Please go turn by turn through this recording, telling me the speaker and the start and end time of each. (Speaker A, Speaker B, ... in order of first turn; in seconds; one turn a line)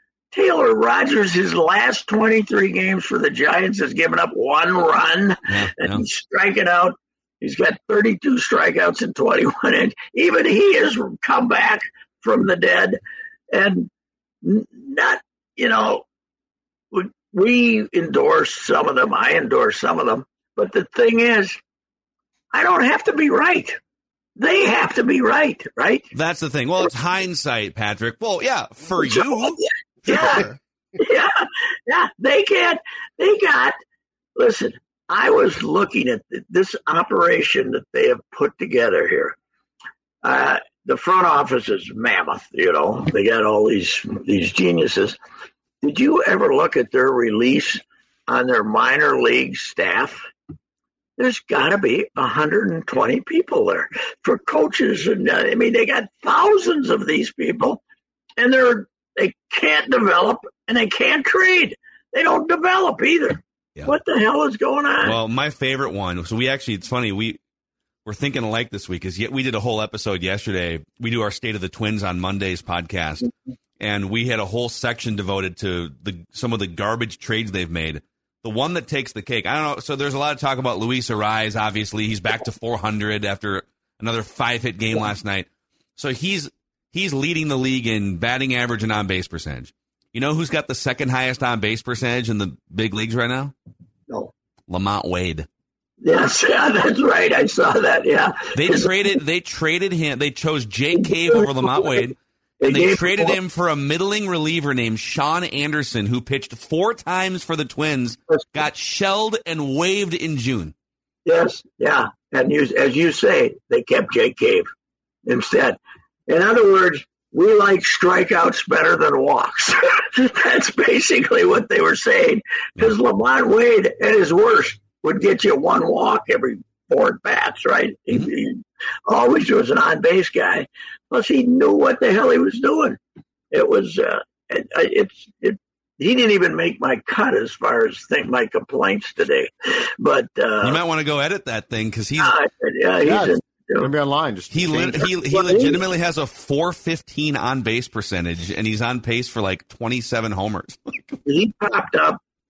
Speaker A: 0.3-13.0
Speaker B: 5.5-6.0
Speaker A: 13.5-13.9
Speaker A: 14.4-16.0
Speaker A: 16.9-21.6
Speaker A: 22.5-23.8
Speaker A: 24.4-26.0
Speaker B: 26.1-30.5
Speaker A: 29.0-33.8
Speaker A: 34.4-39.4
Speaker A: 40.2-45.2
Speaker A: 45.8-50.2
Speaker A: 51.2-57.8
Speaker A: 58.4-65.2
Speaker B: 65.0-67.4
Speaker B: 68.0-93.5
Speaker B: 94.7-95.5
Speaker A: 96.0-98.9
Speaker B: 98.5-110.7
Speaker A: 101.0-102.0
Speaker A: 102.6-103.4
Speaker A: 111.2-114.7
Speaker A: 115.2-133.0
Speaker A: 133.5-140.8
Speaker B: 140.6-142.3
Speaker A: 142.2-143.9
Speaker C: 143.0-145.1
Speaker B: 144.5-151.2
Speaker A: 145.3-145.8
Speaker A: 151.2-152.2